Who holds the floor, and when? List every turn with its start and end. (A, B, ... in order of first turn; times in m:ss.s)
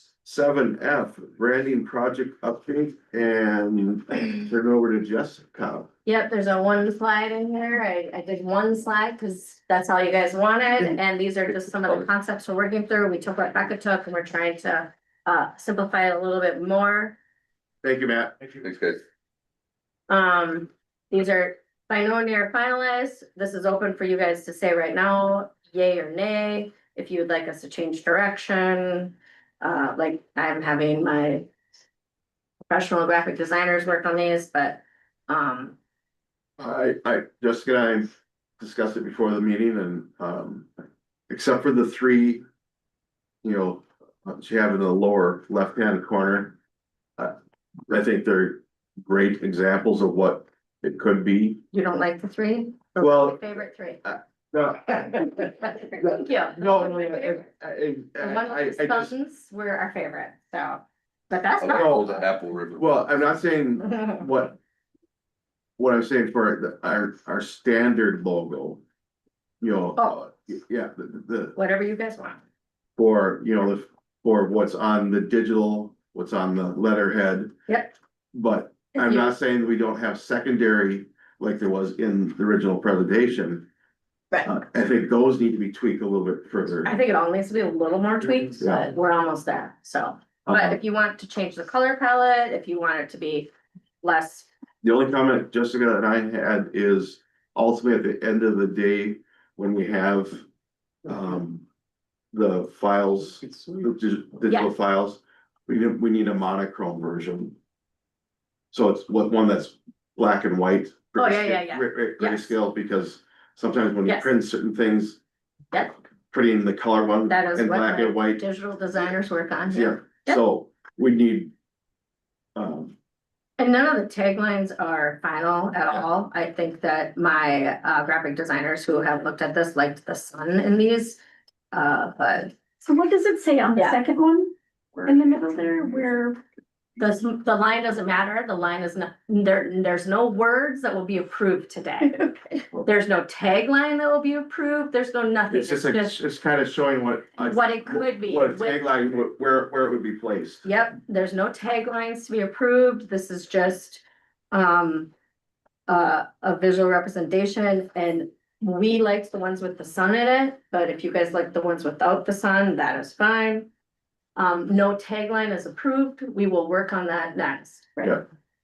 0:00.2-0:05.9 A
0:06.0-0:17.2 B
0:17.8-0:18.3 A
0:18.6-0:19.0 C
0:20.1-0:31.5 B
0:32.7-0:35.8 B
0:36.6-0:40.7 A
0:41.3-0:42.4 A
0:43.4-0:46.6 A
0:47.9-0:51.6 A
0:51.7-0:54.0 B
0:53.0-0:59.1 A
0:55.0-0:57.4 B
0:58.2-1:02.2 B
1:01.6-1:03.3 C
1:01.7-1:02.2 A
1:02.7-1:04.6 A
1:03.8-1:04.2 B
1:05.8-1:08.8 A
1:09.6-1:11.5 A
1:11.5-1:12.4 B
1:13.0-1:17.5 A
1:17.7-1:17.9 B
1:18.3-1:23.7 A
1:18.9-1:19.3 B
1:24.4-1:26.9 A
1:26.8-1:33.5 B
1:28.6-1:28.9 A
1:30.4-1:30.8 A
1:34.0-1:34.5 B
1:34.8-1:40.4 A
1:41.0-1:41.6 A
1:42.3-1:47.6 A
1:44.5-1:44.7 B
1:48.7-1:55.2 A
1:51.2-1:52.5 B
1:54.0-1:54.3 B
1:56.3-1:59.1 A
1:57.3-2:00.4 B
1:59.7-2:01.5 A
2:02.6-2:02.9 A
2:03.6-2:11.2 B
2:11.7-2:12.6 B
2:12.8-2:14.5 D
2:13.7-2:14.0 B
2:15.0-2:16.4 D
2:17.0-2:22.3 B
2:22.8-2:26.2 B
2:25.5-2:30.6 A
2:27.4-2:28.8 B
2:30.6-2:35.1 B
2:35.9-2:43.7 B
2:44.4-2:48.1 B